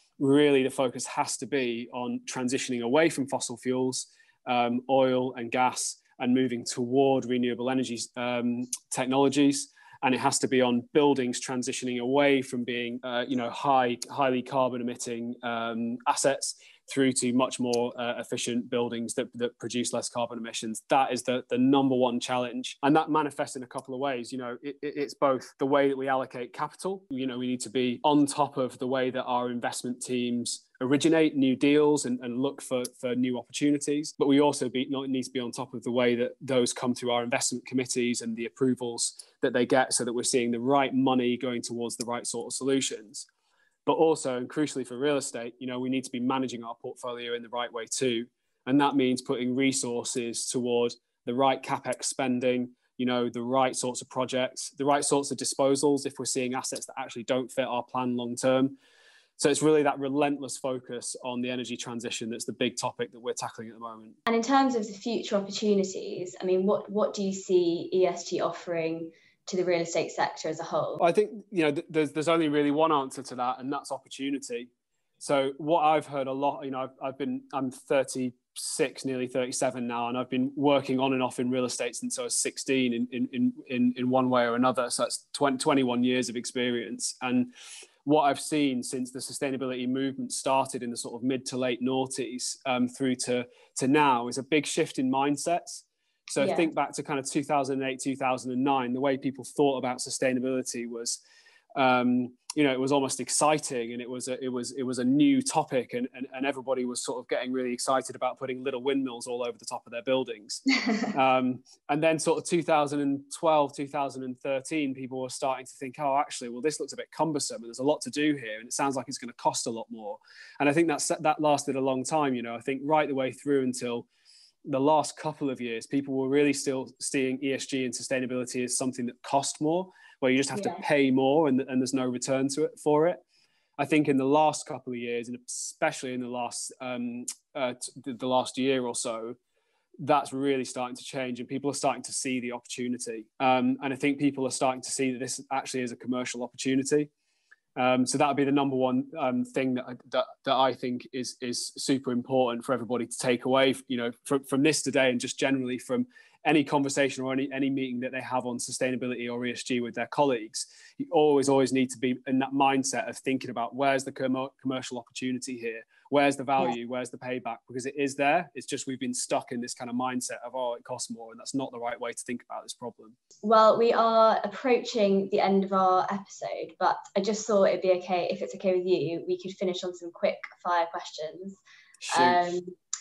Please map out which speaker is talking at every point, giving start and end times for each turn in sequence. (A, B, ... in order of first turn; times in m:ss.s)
0:00.2-0:43.3 A
0:43.9-0:58.8 A
0:59.4-1:04.2 A
1:04.3-1:11.0 B
1:11.0-1:27.5 A
1:28.0-1:41.2 A
1:36.4-1:36.7 B
1:41.8-2:04.1 A
2:04.7-2:13.2 A
2:10.5-2:10.8 B
2:13.8-2:19.4 A
2:20.0-2:27.1 A
2:27.8-2:53.2 A
2:53.4-3:01.6 B
3:02.0-3:02.6 A
3:02.1-3:02.7 B